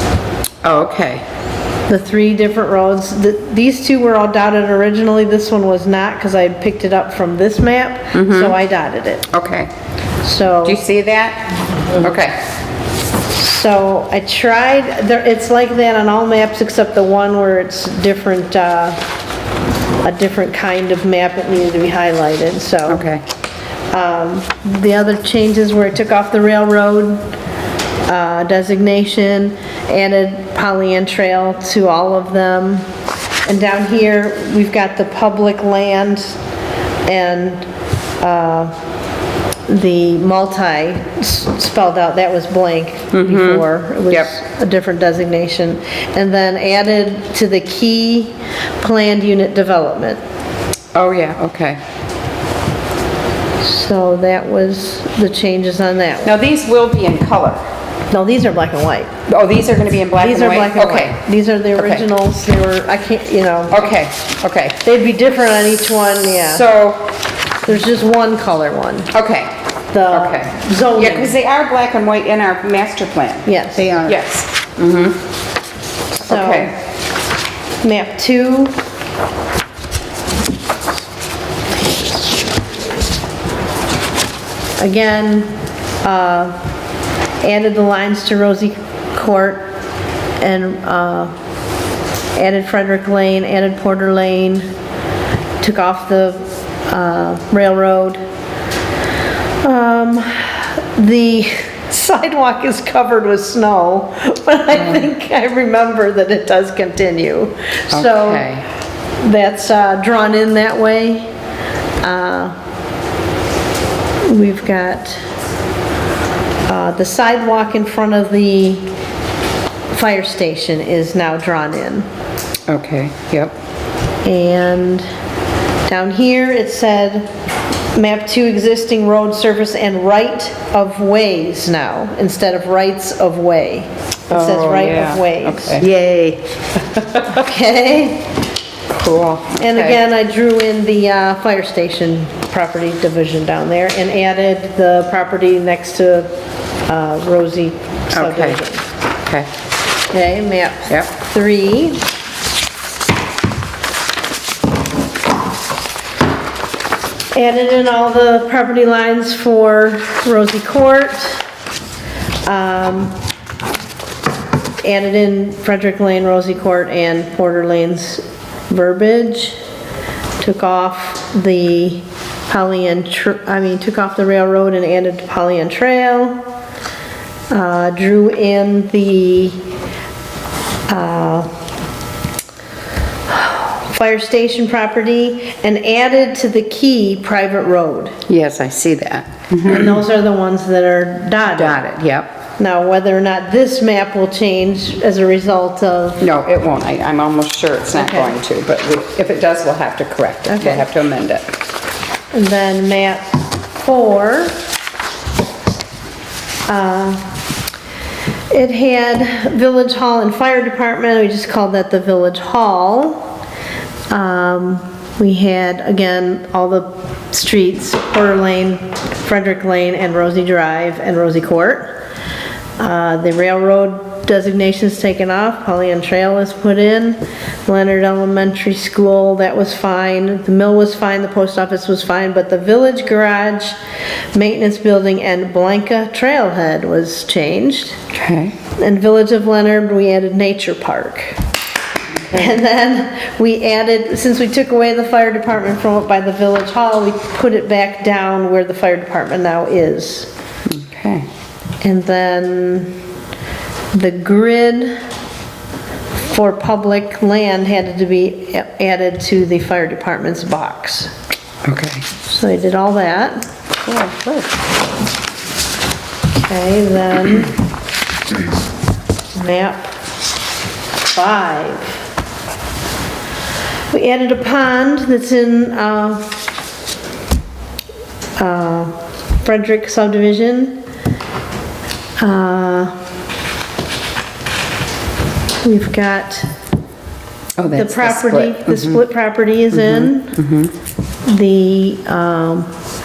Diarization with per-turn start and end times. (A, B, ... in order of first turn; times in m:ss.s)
0:00.6-0:01.2 A
0:01.9-0:09.3 B
0:08.1-0:08.6 A
0:09.3-0:09.7 A
0:10.2-0:10.8 B
0:10.6-0:12.4 A
0:13.3-0:19.0 B
0:20.0-0:23.0 B
0:22.9-0:23.2 A
0:23.9-0:27.2 B
0:28.1-0:32.8 B
0:33.4-0:36.4 B
0:37.0-0:37.6 B
0:38.2-0:38.7 B
0:39.7-0:50.2 B
0:43.1-0:44.3 A
0:50.9-0:51.8 A
0:53.6-0:56.4 B
0:56.2-0:57.6 A
0:58.1-0:59.1 B
0:59.3-1:01.2 A
1:00.2-1:03.8 B
1:01.8-1:02.1 A
1:03.7-1:04.8 A
1:04.8-1:06.6 B
1:06.4-1:07.1 A
1:07.6-1:09.1 B
1:09.1-1:09.5 A
1:09.9-1:11.3 B
1:10.1-1:15.2 A
1:13.4-1:14.1 B
1:16.2-1:16.7 A
1:16.2-1:16.8 B
1:17.8-1:18.8 B
1:21.8-1:22.5 B
1:24.8-1:25.5 B
1:26.0-1:26.5 B
1:27.4-1:29.7 B
1:30.4-1:31.3 B
1:32.3-1:34.7 B
1:35.6-1:38.2 B
1:39.6-1:48.6 B
1:47.9-1:48.6 A
1:49.2-1:51.3 B
1:52.0-1:52.5 B
1:54.2-1:55.2 B
1:56.7-1:58.9 B
1:59.9-2:02.1 B
2:02.7-2:03.5 A
2:04.2-2:05.1 B
2:05.9-2:07.3 B
2:07.9-2:15.8 B
2:14.3-2:17.4 A
2:17.3-2:18.3 B
2:18.9-2:20.0 A
2:19.6-2:26.3 B
2:26.9-2:28.8 B
2:28.1-2:28.6 A
2:29.2-2:29.5 A
2:30.1-2:32.0 B
2:37.3-2:41.5 B
2:42.4-2:43.1 B
2:44.8-2:49.6 B
2:50.4-2:56.4 B
2:57.5-2:59.6 B
3:00.9-3:01.5 B
3:03.3-3:08.2 B
3:08.3-3:10.0 A
3:09.6-3:11.8 B
3:11.5-3:12.3 A
3:12.6-3:16.2 B
3:16.2-3:21.5 A
3:18.0-3:18.3 B
3:20.5-3:20.9 B
3:22.3-3:24.6 B
3:26.7-3:27.3 B
3:28.5-3:33.3 B
3:34.1-3:41.9 B
3:42.8-3:53.8 B
3:54.3-3:58.0 B
3:58.1-3:58.6 A
3:58.7-4:01.4 B
4:02.3-4:10.3 B
4:10.7-4:11.3 A
4:11.8-4:13.0 B
4:13.9-4:15.0 B
4:16.2-4:21.1 B
4:21.6-4:22.0 A
4:22.2-4:23.4 B
4:23.8-4:24.5 A
4:26.3-4:27.6 B
4:29.3-4:29.9 B
4:31.1-4:32.0 B
4:33.9-4:36.4 B
4:38.4-4:40.8 B
4:42.2-4:42.9 B
4:45.6-4:46.5 B
4:47.6-4:49.0 A
4:47.7-4:50.4 B
4:49.7-4:50.7 A
4:51.3-4:52.7 B